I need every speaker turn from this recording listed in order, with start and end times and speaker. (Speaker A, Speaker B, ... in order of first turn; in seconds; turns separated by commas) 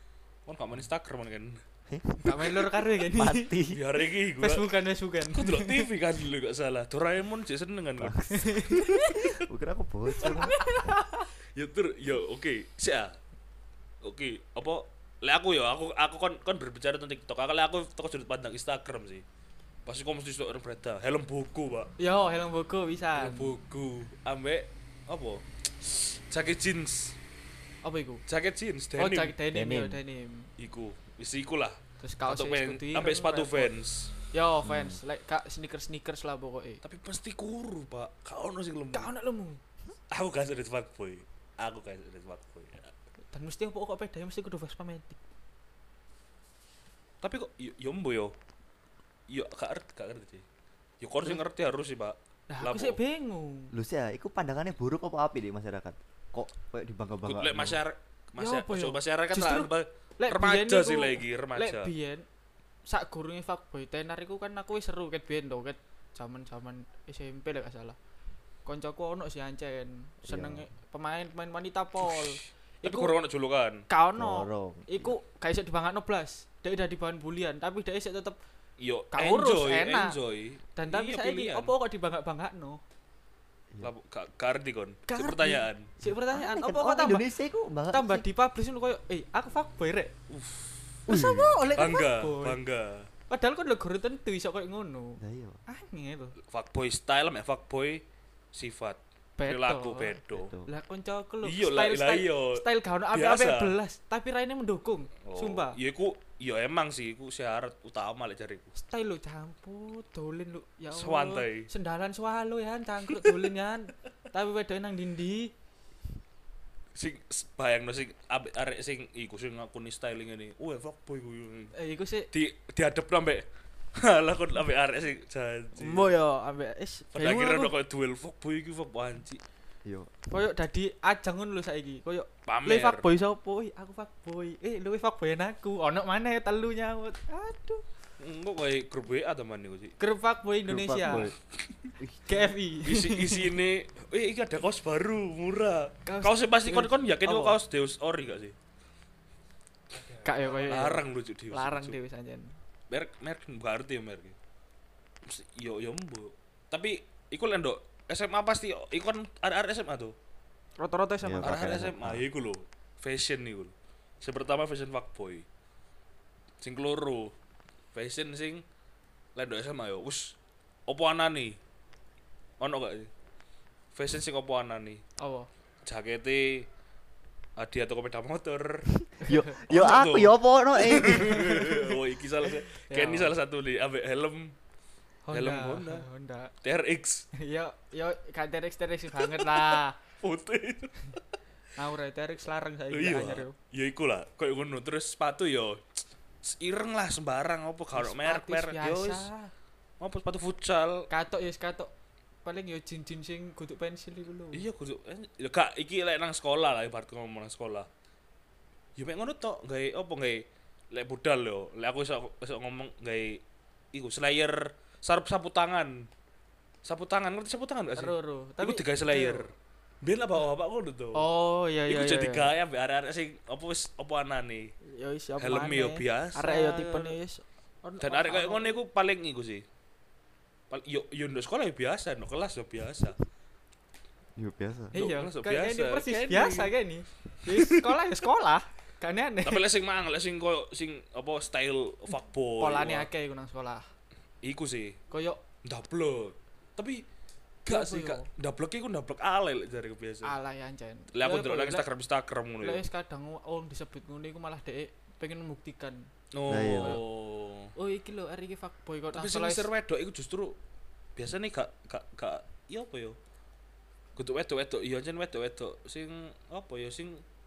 Speaker A: 0.5-1.6, Speaker B: 1.9-2.6, Speaker C: 2.1-3.5, Speaker B: 3.1-3.8, Speaker A: 3.7-4.7, Speaker C: 4.4-5.9, Speaker A: 5.3-8.3, Speaker B: 8.0-10.7, Speaker C: 8.3-9.3, Speaker C: 10.2-11.3, Speaker A: 10.3-10.8, Speaker A: 11.6-13.2, Speaker A: 14.0-19.2, Speaker A: 19.9-21.9, Speaker C: 22.0-23.5, Speaker A: 23.2-27.2, Speaker C: 27.8-28.2, Speaker A: 28.3-29.4, Speaker C: 29.0-30.5, Speaker B: 29.5-30.0, Speaker A: 30.6-34.1, Speaker C: 32.0-33.7, Speaker C: 34.3-36.8, Speaker B: 34.6-35.0, Speaker A: 36.8-39.1, Speaker C: 38.9-39.6, Speaker A: 40.1-42.9, Speaker C: 43.3-45.2, Speaker A: 47.2-48.4, Speaker A: 49.3-50.4, Speaker A: 51.0-53.0, Speaker C: 52.5-53.7, Speaker B: 53.7-57.8, Speaker A: 57.2-61.9, Speaker C: 58.4-62.3, Speaker C: 62.9-68.0, Speaker C: 68.7-73.1, Speaker B: 70.2-70.6, Speaker A: 72.8-73.8, Speaker C: 73.9-78.4, Speaker B: 74.2-75.1, Speaker A: 78.8-81.7, Speaker C: 79.1-80.2, Speaker C: 80.8-82.8, Speaker A: 83.8-85.9, Speaker C: 85.1-87.2, Speaker B: 86.0-88.3, Speaker C: 87.9-90.1, Speaker A: 90.3-91.0, Speaker C: 91.1-92.6, Speaker B: 91.1-91.6, Speaker A: 91.8-93.1, Speaker C: 93.3-96.4, Speaker B: 95.2-95.6, Speaker A: 96.5-100.5, Speaker C: 99.4-105.8, Speaker B: 100.3-100.7, Speaker A: 101.4-103.8, Speaker A: 105.2-108.7, Speaker C: 108.8-115.5, Speaker A: 110.9-111.7, Speaker A: 113.1-113.4, Speaker A: 116.9-121.7, Speaker C: 121.8-122.3, Speaker A: 122.3-126.1, Speaker C: 125.8-127.7, Speaker A: 127.1-129.4, Speaker B: 129.8-130.1, Speaker C: 130.3-137.8, Speaker A: 132.5-133.1, Speaker A: 138.2-139.9, Speaker C: 140.0-141.3, Speaker B: 140.7-141.4, Speaker C: 142.3-143.5, Speaker A: 142.8-148.6, Speaker C: 146.1-147.6, Speaker A: 149.9-151.9, Speaker C: 150.2-152.6, Speaker A: 152.9-154.4, Speaker A: 155.3-160.1, Speaker C: 160.8-161.8, Speaker B: 161.2-162.2, Speaker A: 161.4-165.4, Speaker A: 166.6-167.3, Speaker A: 167.9-168.6, Speaker A: 169.3-170.4, Speaker A: 170.9-171.6, Speaker A: 172.6-173.1, Speaker A: 173.9-175.0, Speaker C: 175.2-175.5, Speaker A: 175.8-176.7, Speaker A: 177.6-178.9, Speaker C: 179.2-179.6, Speaker B: 179.2-181.8, Speaker A: 179.7-184.6, Speaker C: 181.3-181.8, Speaker C: 182.5-183.3, Speaker C: 185.3-186.5, Speaker A: 185.3-186.1, Speaker A: 186.6-187.3, Speaker C: 187.4-190.0, Speaker A: 189.2-191.2, Speaker C: 191.8-193.6, Speaker A: 192.9-195.8, Speaker A: 196.4-199.3, Speaker C: 197.9-199.5, Speaker A: 200.0-201.1, Speaker C: 201.1-201.9, Speaker C: 202.4-204.6, Speaker A: 204.5-207.9, Speaker A: 208.9-213.4, Speaker A: 213.9-216.1, Speaker A: 216.8-221.3, Speaker C: 218.0-219.5, Speaker C: 221.1-222.5, Speaker A: 221.9-224.7, Speaker C: 224.9-228.8, Speaker A: 225.4-227.1, Speaker A: 228.0-229.6, Speaker A: 230.7-233.2, Speaker B: 234.4-234.9, Speaker A: 234.9-236.7, Speaker C: 234.9-239.6, Speaker A: 237.6-237.9, Speaker A: 239.4-243.1, Speaker C: 242.6-243.9, Speaker A: 244.4-245.0, Speaker C: 245.1-245.4, Speaker A: 245.6-247.1, Speaker A: 247.7-250.3, Speaker C: 247.7-248.3, Speaker C: 250.2-251.9, Speaker A: 251.1-252.8, Speaker C: 252.6-256.1, Speaker A: 256.3-257.7, Speaker B: 256.4-257.0, Speaker C: 257.8-259.7, Speaker A: 259.1-260.6, Speaker A: 261.1-263.2, Speaker A: 264.1-267.2